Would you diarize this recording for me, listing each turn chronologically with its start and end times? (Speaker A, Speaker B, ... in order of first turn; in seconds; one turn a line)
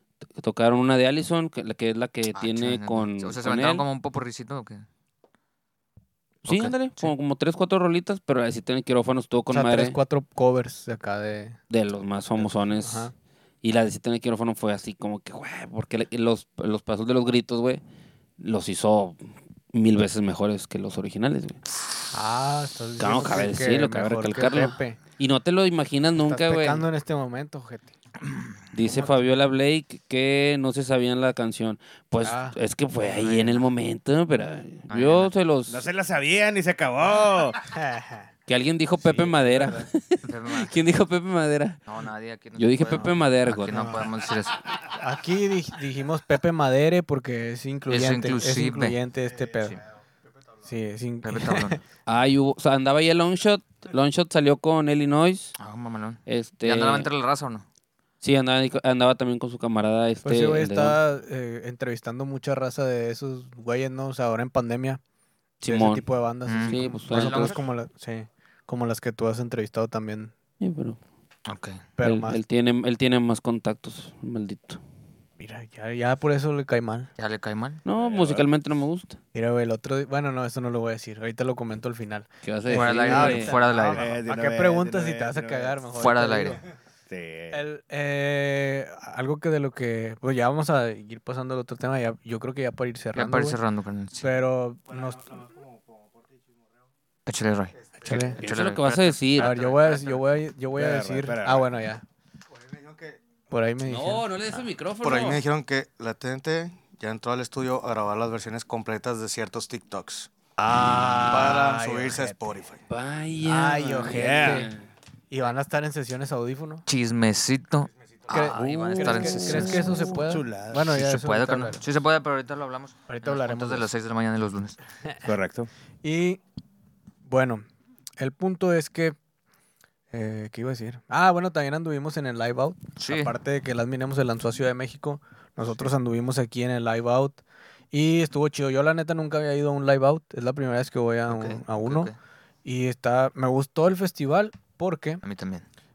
Speaker A: 0.4-3.8
Speaker B: 2.3-4.8
Speaker B: 6.5-7.1
Speaker A: 6.5-10.0
Speaker C: 9.5-11.6
Speaker A: 11.7-13.1
Speaker C: 12.4-13.1
Speaker A: 13.6-17.8
Speaker A: 18.4-19.2
Speaker A: 19.7-21.6
Speaker C: 22.1-25.0
Speaker A: 23.0-26.8
Speaker C: 26.2-27.9
Speaker A: 28.7-35.8
Speaker C: 28.9-29.2
Speaker C: 32.2-32.5
Speaker B: 33.1-33.6
Speaker B: 34.9-35.3
Speaker D: 35.7-37.6
Speaker C: 37.7-38.3
Speaker A: 38.5-41.8
Speaker C: 39.0-39.9
Speaker B: 40.2-40.7
Speaker B: 41.9-44.7
Speaker A: 42.6-44.0
Speaker C: 43.6-44.1
Speaker C: 44.9-49.8
Speaker B: 47.9-49.0
Speaker C: 50.6-51.8
Speaker B: 51.2-51.8
Speaker A: 52.0-55.5
Speaker B: 55.6-57.6
Speaker A: 56.3-57.1
Speaker A: 58.2-61.0
Speaker C: 60.2-65.0
Speaker A: 65.6-66.0
Speaker C: 65.6-70.3
Speaker B: 66.5-67.6
Speaker A: 66.6-67.6
Speaker A: 70.6-71.0
Speaker B: 71.5-71.8
Speaker C: 72.0-72.4
Speaker A: 72.0-74.8
Speaker C: 75.4-77.1
Speaker B: 77.2-77.8
Speaker A: 77.8-79.2
Speaker D: 78.0-78.5
Speaker C: 79.3-86.6
Speaker A: 82.4-83.5
Speaker B: 82.7-84.1
Speaker D: 83.9-85.8
Speaker B: 86.0-86.6
Speaker D: 87.1-87.6
Speaker C: 87.5-93.6
Speaker B: 93.1-94.3
Speaker C: 94.2-95.4
Speaker B: 97.2-99.2
Speaker C: 98.0-98.4
Speaker A: 98.3-99.6
Speaker C: 99.3-102.0
Speaker D: 99.6-100.0
Speaker D: 100.7-101.7
Speaker E: 102.8-103.1
Speaker C: 103.5-104.6
Speaker A: 103.8-105.4
Speaker E: 105.0-110.3
Speaker C: 110.6-112.5
Speaker E: 111.2-112.8
Speaker A: 112.9-114.9
Speaker C: 113.4-114.7
Speaker D: 114.1-114.7
Speaker C: 115.3-116.8
Speaker B: 116.8-120.2
Speaker C: 118.3-121.8
Speaker A: 118.4-120.1
Speaker D: 120.1-121.0
Speaker B: 120.9-124.8
Speaker C: 123.1-123.9
Speaker D: 125.2-125.7
Speaker C: 126.0-126.4
Speaker C: 127.2-127.6
Speaker C: 128.2-129.2
Speaker C: 130.1-137.4
Speaker B: 133.0-133.3
Speaker C: 137.9-142.1
Speaker B: 141.3-142.2
Speaker C: 142.6-145.2
Speaker B: 145.2-145.7